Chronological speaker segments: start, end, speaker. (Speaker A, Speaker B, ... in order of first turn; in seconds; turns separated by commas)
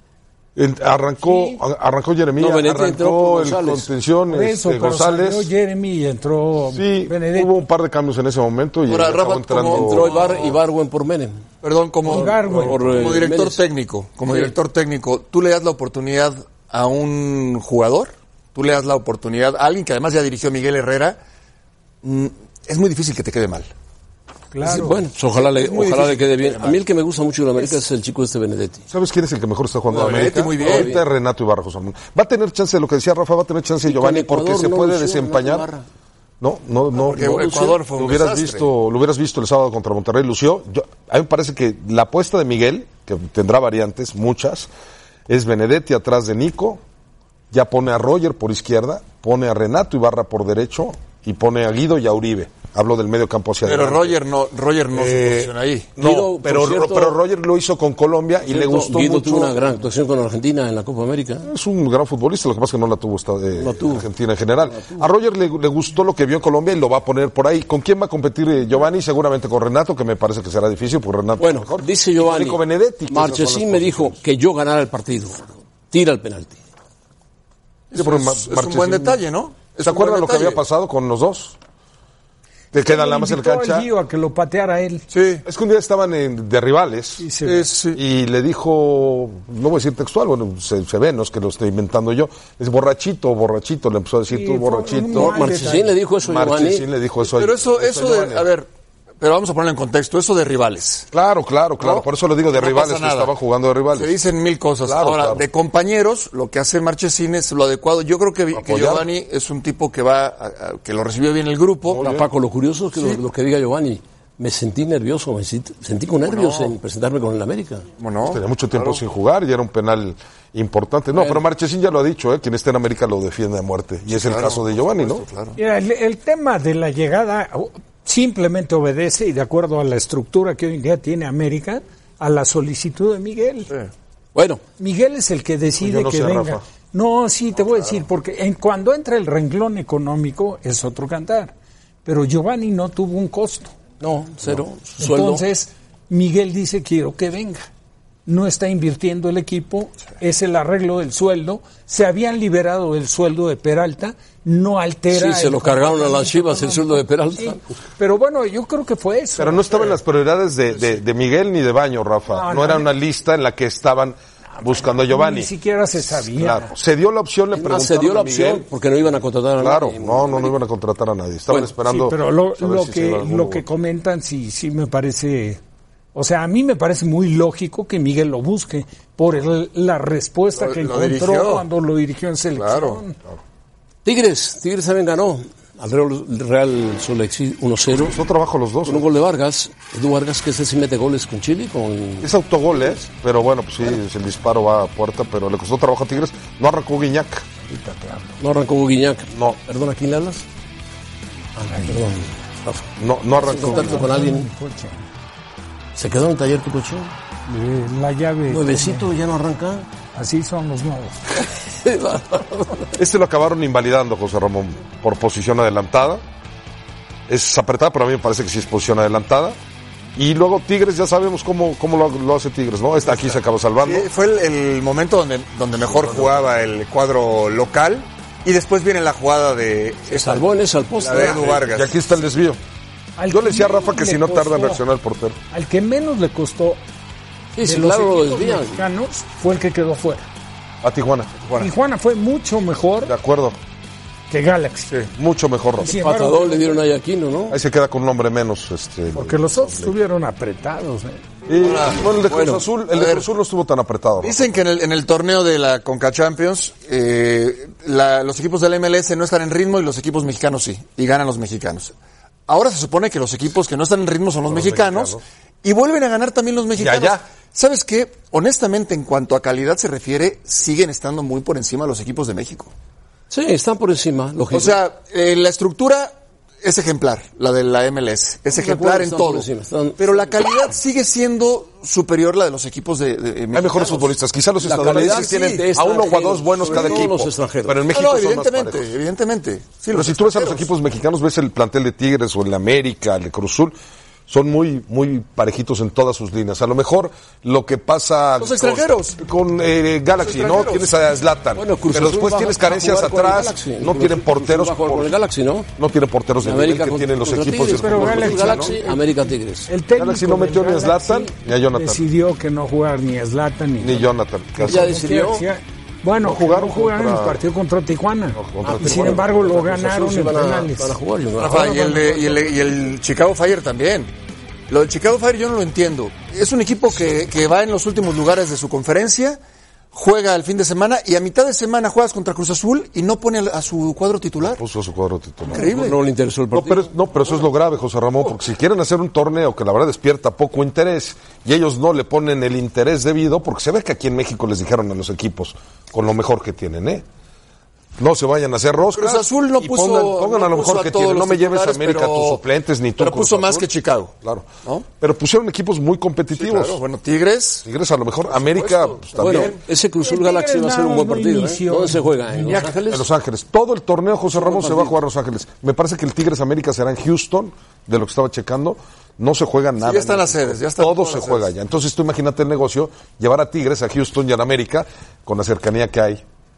Speaker A: 0.6-5.5, Speaker B: 1.2-1.6, Speaker C: 2.4-3.9, Speaker B: 4.3-7.5, Speaker A: 6.7-10.1, Speaker D: 8.9-10.6, Speaker C: 9.7-11.4, Speaker D: 11.6-21.2, Speaker B: 12.1-12.8, Speaker C: 12.1-13.6, Speaker A: 12.5-13.2, Speaker D: 22.0-23.7, Speaker B: 24.5-25.0, Speaker C: 24.6-28.9, Speaker D: 25.4-26.8, Speaker A: 28.9-35.7, Speaker D: 29.9-31.0, Speaker C: 30.0-31.0, Speaker C: 33.9-35.9, Speaker A: 36.4-44.7, Speaker D: 37.0-38.7, Speaker C: 37.2-37.8, Speaker A: 45.3-46.8, Speaker A: 47.5-54.2, Speaker D: 53.6-55.9, Speaker A: 55.0-59.8, Speaker C: 56.0-57.2, Speaker C: 58.5-61.5, Speaker A: 61.4-74.2, Speaker C: 63.6-64.1, Speaker C: 64.7-65.1, Speaker C: 71.4-76.6, Speaker D: 77.9-80.6, Speaker A: 77.9-79.2, Speaker A: 79.8-81.6, Speaker A: 82.7-83.9, Speaker B: 82.8-85.1, Speaker D: 85.1-85.4, Speaker A: 85.5-87.3, Speaker B: 87.2-87.7, Speaker D: 87.4-88.0, Speaker A: 87.9-95.5, Speaker B: 94.3-96.0, Speaker C: 95.1-96.9, Speaker A: 96.2-98.5, Speaker D: 97.3-98.7, Speaker D: 99.2-101.1, Speaker A: 101.1-104.2, Speaker D: 101.8-103.3, Speaker D: 103.9-112.0, Speaker A: 104.8-105.4, Speaker A: 108.5-109.1, Speaker A: 111.9-112.3, Speaker C: 112.0-117.9, Speaker D: 116.3-116.7, Speaker D: 118.0-119.0, Speaker A: 118.3-125.2, Speaker C: 121.2-121.4, Speaker D: 124.1-125.6, Speaker B: 125.6-133.7, Speaker C: 134.3-134.6, Speaker B: 134.8-141.5, Speaker A: 135.8-136.6, Speaker B: 142.1-143.7, Speaker C: 144.0-145.4, Speaker B: 145.0-147.7, Speaker B: 148.3-159.9, Speaker C: 155.1-157.6, Speaker A: 159.4-168.7, Speaker B: 162.3-162.9, Speaker B: 164.6-166.7, Speaker C: 167.5-170.5, Speaker A: 169.6-173.6, Speaker B: 171.9-175.6, Speaker B: 176.1-183.2, Speaker D: 180.6-181.7, Speaker D: 182.6-183.0, Speaker C: 184.1-188.2, Speaker A: 187.9-189.1, Speaker C: 188.9-192.3, Speaker A: 192.2-197.5, Speaker B: 197.7-198.3, Speaker C: 198.4-200.5, Speaker C: 201.6-204.5, Speaker A: 203.0-204.0, Speaker B: 203.5-205.0, Speaker C: 206.0-207.1, Speaker B: 207.5-209.1, Speaker C: 208.5-209.9, Speaker B: 210.2-211.2, Speaker C: 211.5-212.9, Speaker A: 213.0-216.2, Speaker A: 217.3-219.6, Speaker A: 220.2-224.1, Speaker D: 223.1-230.5, Speaker A: 225.9-226.4, Speaker C: 230.1-231.5, Speaker D: 231.0-231.9, Speaker A: 231.7-232.6, Speaker B: 233.2-234.8, Speaker A: 233.3-235.4, Speaker B: 235.5-236.8, Speaker C: 237.6-238.8, Speaker B: 237.6-240.3, Speaker A: 240.8-241.3, Speaker D: 241.4-241.7, Speaker B: 241.6-243.1, Speaker A: 243.0-243.6, Speaker B: 244.3-244.9, Speaker A: 245.2-245.9, Speaker C: 245.8-247.6, Speaker B: 245.8-246.8, Speaker A: 247.5-249.9, Speaker B: 249.1-251.2, Speaker A: 251.5-254.5, Speaker D: 251.6-253.3, Speaker C: 252.3-252.6, Speaker D: 254.2-261.9, Speaker D: 262.5-272.7, Speaker A: 264.5-265.2, Speaker A: 266.8-267.2, Speaker C: 273.3-274.8, Speaker D: 274.5-279.5, Speaker C: 278.5-280.4, Speaker D: 280.0-284.1, Speaker A: 283.5-288.9, Speaker C: 284.6-287.8, Speaker D: 284.8-285.6, Speaker D: 286.6-287.1, Speaker D: 287.9-290.7, Speaker A: 289.9-293.8, Speaker A: 294.3-305.1, Speaker D: 298.4-299.2, Speaker D: 300.2-300.9, Speaker C: 301.6-305.7, Speaker A: 305.8-308.8, Speaker C: 306.4-309.7, Speaker B: 307.8-309.2, Speaker B: 309.7-321.0, Speaker A: 309.9-312.0, Speaker A: 313.8-314.9, Speaker C: 314.6-315.5, Speaker A: 316.2-317.4, Speaker A: 318.4-319.2, Speaker C: 318.6-322.2, Speaker D: 321.4-324.1, Speaker B: 321.6-322.2, Speaker D: 324.7-329.4, Speaker D: 329.9-334.6, Speaker A: 334.4-335.7, Speaker D: 335.5-336.0, Speaker C: 335.5-336.9, Speaker A: 336.5-347.1, Speaker A: 348.0-353.7, Speaker D: 348.9-352.4, Speaker D: 353.0-354.1, Speaker A: 354.2-356.8, Speaker D: 356.3-357.6, Speaker A: 357.6-359.6, Speaker D: 358.3-359.6, Speaker C: 359.2-363.1, Speaker B: 360.0-362.7, Speaker A: 362.9-376.2, Speaker C: 364.3-365.0, Speaker D: 369.8-371.5